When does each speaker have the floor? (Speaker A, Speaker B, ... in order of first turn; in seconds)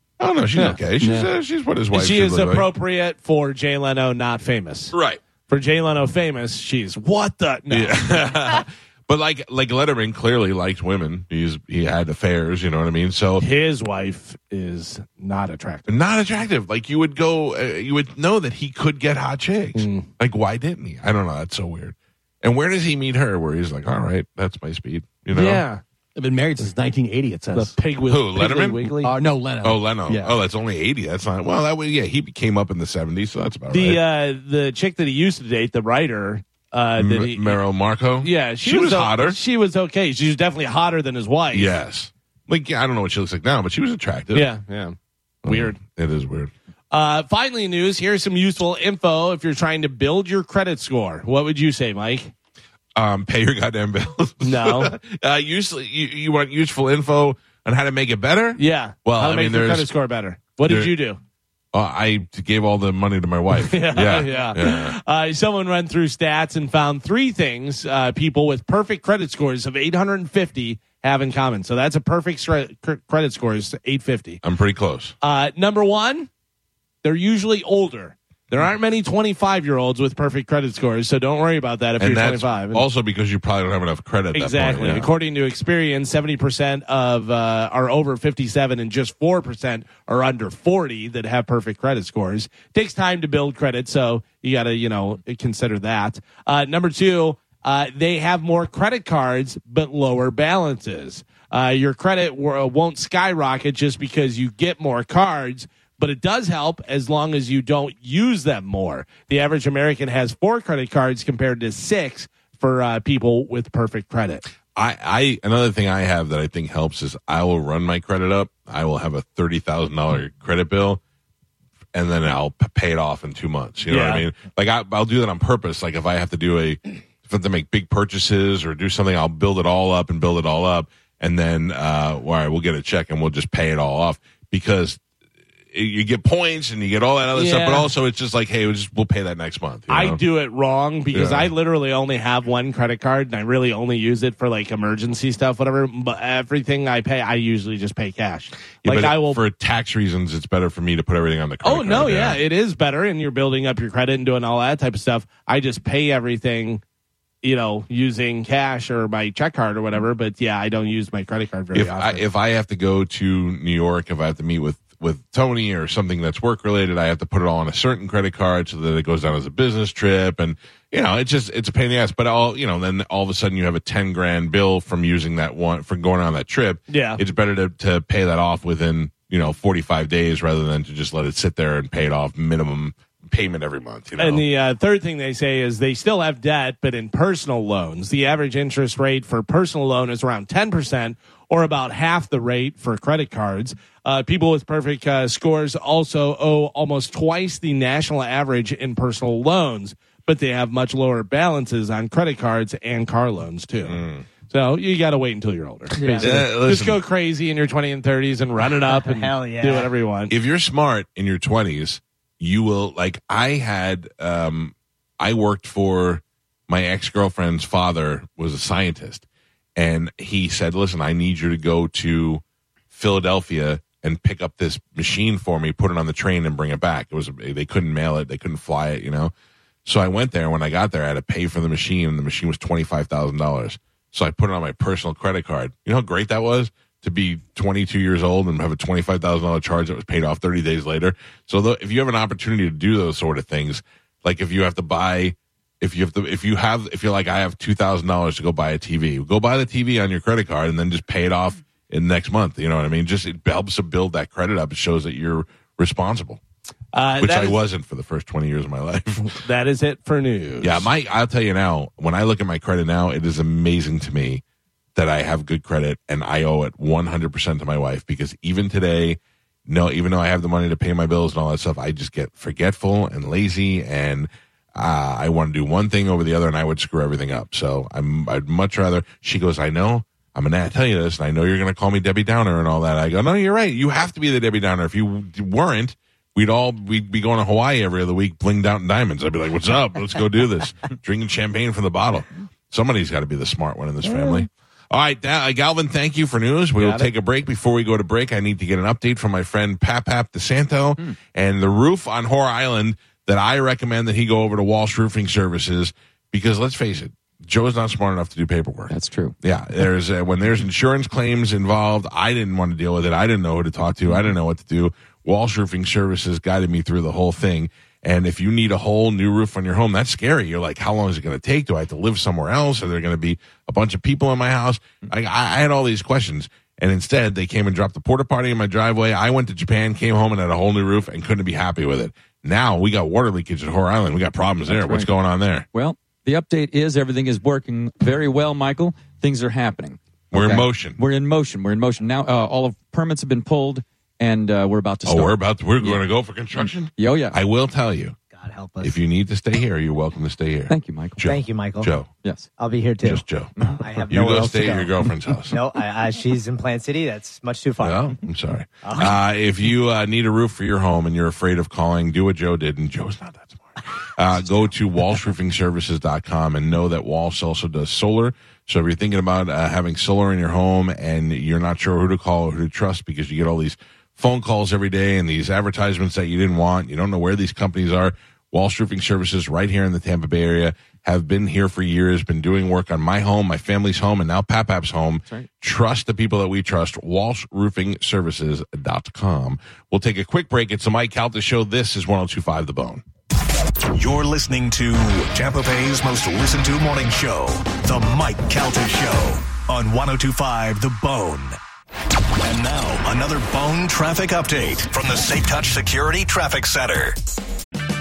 Speaker A: 0.2-2.7, 4.9-5.2, 7.7-13.4, 15.9-25.7, 28.1-28.9, 29.6-34.0, 37.0-39.4, 41.5-44.5, 45.5-46.5, 53.0-59.9, 60.6-61.0, 61.7-65.0, 74.4-75.1, 82.0-85.1, 114.8-121.0, 121.9-135.0, 135.7-140.2, 141.1-141.5, 148.8-152.4, 161.7-184.5, 203.8-204.3, 206.2-207.0, 210.3-229.3, 229.8-256.4, 257.2-259.4, 260.6-264.4, 265.0-335.7, 340.3-341.0, 345.1-348.2, 348.8-352.1, 353.0-355.6, 357.8-393.0
Speaker B: 1.0-1.3, 26.2-27.8, 29.0-30.4
Speaker C: 1.9-5.0, 5.5-8.2, 13.4-15.9, 19.8-20.1, 25.3-25.8, 27.5-29.1, 33.7-37.6, 38.2-41.8, 44.3-45.8, 46.9-52.3, 54.4-54.9, 58.6-61.2, 63.5-74.4, 75.2-76.3, 77.0-82.8, 84.3-114.4, 123.9-124.3, 137.3-137.9, 139.9-149.4, 151.6-156.8, 157.4-162.2, 176.9-177.2, 184.2-210.3, 256.9-257.6, 259.3-260.9, 296.8-297.1
Speaker D: 206.0-206.4, 208.9-209.9, 348.3-349.0, 351.2-351.9, 352.6-353.2, 353.8-354.9, 355.5-358.1, 358.8-359.2
Speaker E: 308.9-309.3, 334.7-335.1, 335.7-346.0, 346.9-347.4, 350.7-351.3, 352.2-352.5
Speaker F: 393.9-401.6, 402.4-407.2